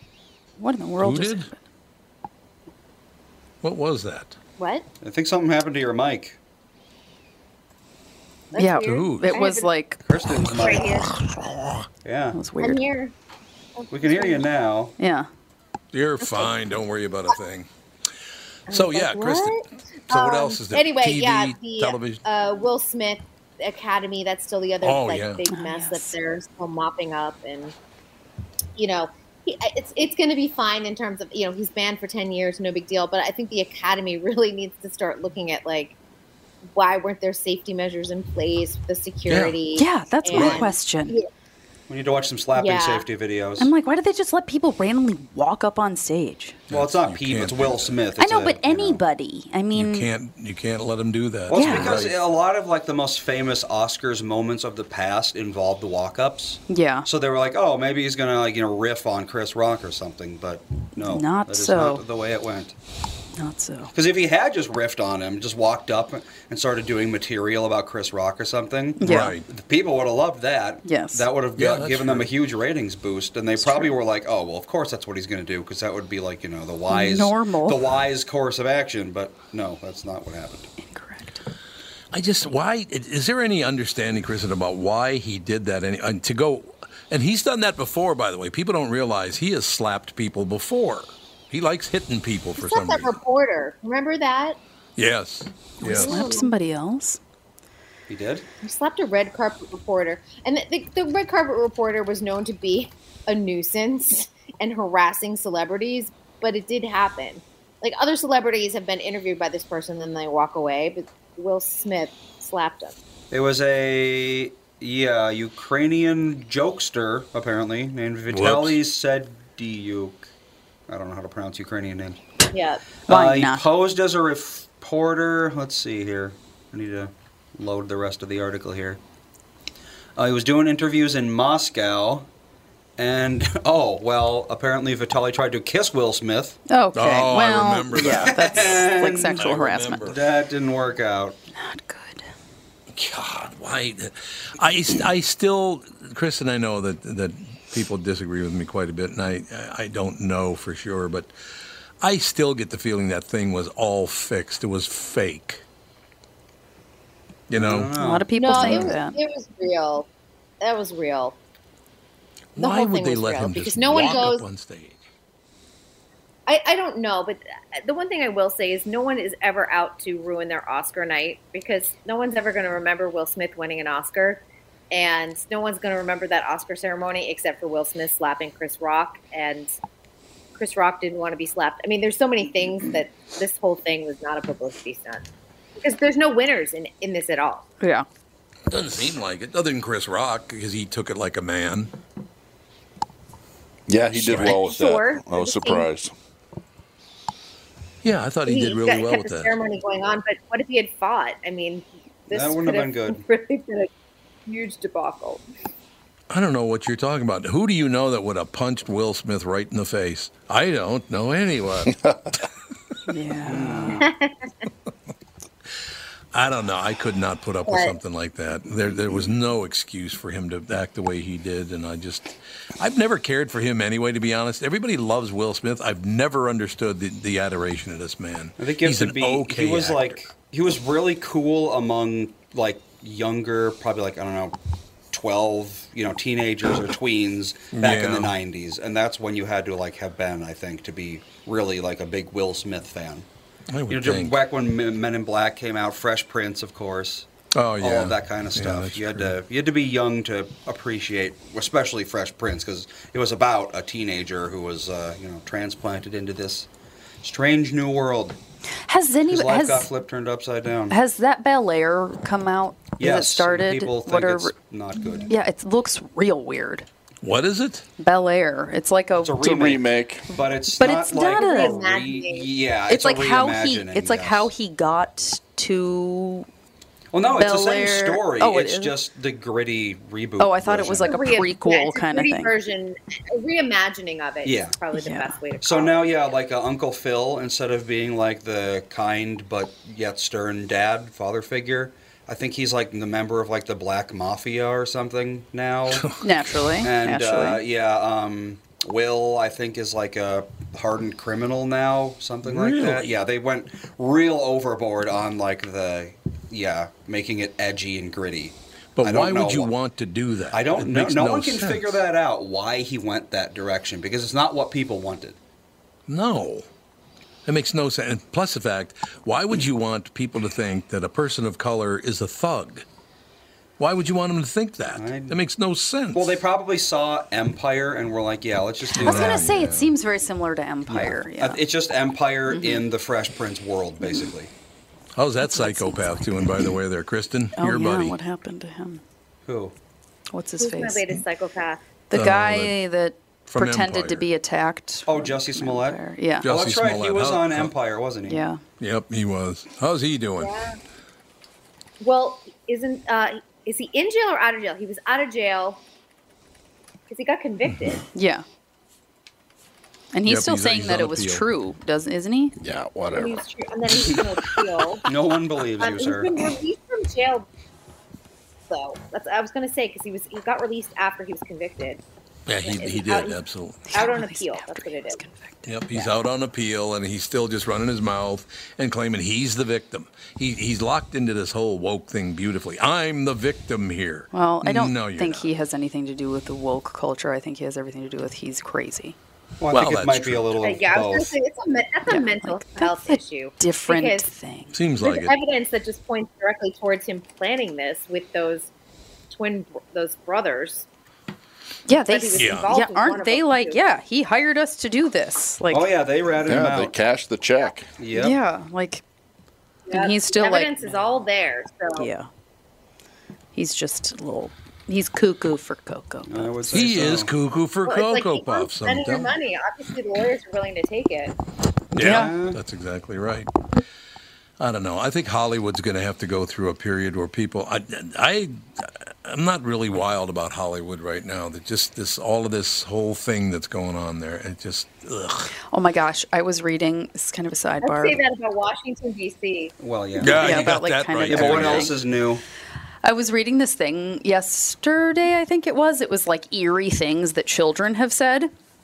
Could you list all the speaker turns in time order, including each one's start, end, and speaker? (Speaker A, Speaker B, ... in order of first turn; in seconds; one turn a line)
Speaker A: 0.6-1.6
Speaker B: 1.0-1.5
Speaker B: 3.6-4.4
Speaker C: 4.6-4.8
Speaker D: 5.0-6.4
Speaker C: 8.5-9.7
Speaker A: 8.6-10.0
Speaker B: 8.9-9.3
Speaker D: 10.1-10.9
Speaker C: 10.6-11.1
Speaker B: 11.1-11.8
Speaker D: 12.1-12.4
Speaker A: 12.3-12.8
Speaker C: 12.6-13.1
Speaker C: 13.8-14.4
Speaker D: 13.9-14.9
Speaker A: 15.0-15.3
Speaker B: 15.9-17.7
Speaker C: 16.2-16.5
Speaker B: 18.7-22.2
Speaker C: 18.7-27.7
Speaker B: 24.8-25.4
Speaker A: 25.5-26.1
Speaker C: 28.8-36.0
Speaker C: 36.7-41.3
Speaker B: 39.3-39.6
Speaker A: 39.8-41.2
Speaker B: 40.3-40.7
Speaker D: 41.9-43.7
Speaker C: 42.5-43.1
Speaker A: 43.6-46.6
Speaker D: 46.7-49.0
Speaker B: 46.7-48.0
Speaker A: 48.2-50.1
Speaker B: 49.7-52.2
Speaker D: 51.5-62.8
Speaker A: 51.5-52.0
Speaker A: 56.7-57.1
Speaker A: 61.0-62.0
Speaker A: 63.4-63.9
Speaker D: 63.9-80.7
Speaker A: 69.0-69.4
Speaker B: 69.0-69.4
Speaker A: 70.8-71.3
Speaker B: 71.6-72.3
Speaker A: 73.6-73.9
Speaker A: 76.9-77.8
Speaker A: 80.8-81.4
Speaker B: 82.1-93.2
Speaker C: 92.6-94.6
Speaker B: 95.0-96.4
Speaker A: 95.8-97.2
Speaker C: 95.9-96.5
Speaker D: 98.1-98.5
Speaker C: 98.6-113.0
Speaker D: 113.3-120.3
Speaker B: 118.3-118.8
Speaker D: 120.9-122.2
Speaker C: 122.5-122.9
Speaker A: 123.1-123.6
Speaker D: 123.1-129.0
Speaker D: 130.2-132.3
Speaker D: 133.0-136.6
Speaker A: 136.7-140.1
Speaker B: 136.9-140.2
Speaker D: 138.0-139.5
Speaker D: 140.1-141.4
Speaker A: 141.6-142.2
Speaker B: 142.9-151.3
Speaker B: 152.0-155.6
Speaker B: 157.5-157.9
Speaker D: 157.6-158.9
Speaker A: 157.9-159.2
Speaker C: 158.3-160.1
Speaker C: 160.6-161.4
Speaker B: 162.6-165.0
Speaker C: 162.6-164.4
Speaker C: 166.5-179.7
Speaker C: 180.6-187.7
Speaker A: 187.8-188.1
Speaker B: 188.7-191.9
Speaker E: 193.9-196.1
Speaker B: 194.2-194.5
Speaker C: 194.3-195.9
Speaker B: 198.0-199.6
Speaker C: 198.5-203.9
Speaker D: 202.3-203.2
Speaker C: 204.5-205.4
Speaker B: 206.3-211.9
Speaker A: 213.1-214.0
Speaker D: 213.5-214.0
Speaker C: 214.0-214.5
Speaker B: 216.3-230.1
Speaker C: 217.7-217.9
Speaker D: 228.6-234.6
Speaker D: 235.1-243.3
Speaker B: 237.7-238.4
Speaker B: 243.7-244.4
Speaker D: 243.9-247.3
Speaker B: 247.5-249.3
Speaker D: 247.8-256.7
Speaker D: 257.2-258.4
Speaker A: 258.9-259.9
Speaker D: 259.3-261.0
Speaker A: 260.9-264.5
Speaker D: 263.0-265.3
Speaker C: 265.0-265.3
Speaker A: 265.3-266.9
Speaker B: 267.2-267.9
Speaker A: 268.0-269.8
Speaker D: 269.2-274.5
Speaker E: 269.4-270.3
Speaker A: 270.7-271.8
Speaker C: 271.2-272.5
Speaker A: 272.9-276.5
Speaker D: 277.1-281.2
Speaker A: 277.4-279.0
Speaker A: 280.4-282.5
Speaker C: 281.1-286.0
Speaker D: 284.4-284.8
Speaker A: 284.9-285.4
Speaker D: 285.6-296.2
Speaker B: 295.9-296.2
Speaker A: 296.2-297.6
Speaker D: 296.8-309.7
Speaker B: 302.4-303.1
Speaker B: 309.0-312.0
Speaker D: 310.5-315.4
Speaker B: 316.1-316.7
Speaker B: 317.5-322.9
Speaker B: 323.8-326.4
Speaker D: 325.0-325.4
Speaker D: 326.1-329.5
Speaker A: 328.9-331.6
Speaker B: 329.0-329.9
Speaker D: 330.9-334.5
Speaker A: 332.5-332.8
Speaker B: 335.2-338.2
Speaker A: 335.5-336.2
Speaker A: 337.6-339.0
Speaker D: 339.5-339.7
Speaker A: 340.3-341.2
Speaker C: 340.6-341.8
Speaker A: 342.1-346.5
Speaker B: 342.1-342.8
Speaker B: 343.5-344.3
Speaker D: 345.1-348.4
Speaker B: 346.4-347.7
Speaker A: 348.3-348.6
Speaker B: 348.8-350.5
Speaker C: 350.4-350.8
Speaker C: 352.0-355.8
Speaker C: 357.1-358.0
Speaker A: 358.1-358.4
Speaker A: 360.1-362.5
Speaker B: 360.3-361.4
Speaker E: 362.6-363.4
Speaker C: 363.1-365.1
Speaker D: 365.1-366.3
Speaker C: 365.8-367.5
Speaker C: 368.7-372.0
Speaker B: 372.5-373.9
Speaker C: 372.6-373.4
Speaker A: 373.9-376.1
Speaker C: 373.9-375.2
Speaker B: 375.7-385.5
Speaker A: 384.3-389.2
Speaker D: 389.6-391.3
Speaker B: 389.7-390.5
Speaker C: 390.6-394.3
Speaker A: 392.1-394.7
Speaker B: 394.7-395.3
Speaker C: 395.0-398.7
Speaker C: 399.3-400.9
Speaker A: 401.9-405.9
Speaker C: 402.1-403.8
Speaker B: 402.4-402.7
Speaker D: 405.7-406.9
Speaker E: 406.5-407.9
Speaker D: 408.0-408.4
Speaker A: 408.1-409.0
Speaker C: 409.9-412.1
Speaker A: 409.9-411.1
Speaker A: 412.0-412.3
Speaker A: 413.6-416.6
Speaker D: 416.3-417.3
Speaker B: 416.7-419.3
Speaker C: 417.9-421.4
Speaker B: 421.9-423.5
Speaker A: 422.0-422.4
Speaker D: 422.0-422.6
Speaker B: 424.6-435.5
Speaker A: 435.7-438.2
Speaker C: 437.8-439.7
Speaker D: 439.8-442.4
Speaker B: 440.2-441.9
Speaker A: 440.2-442.0
Speaker A: 443.0-448.5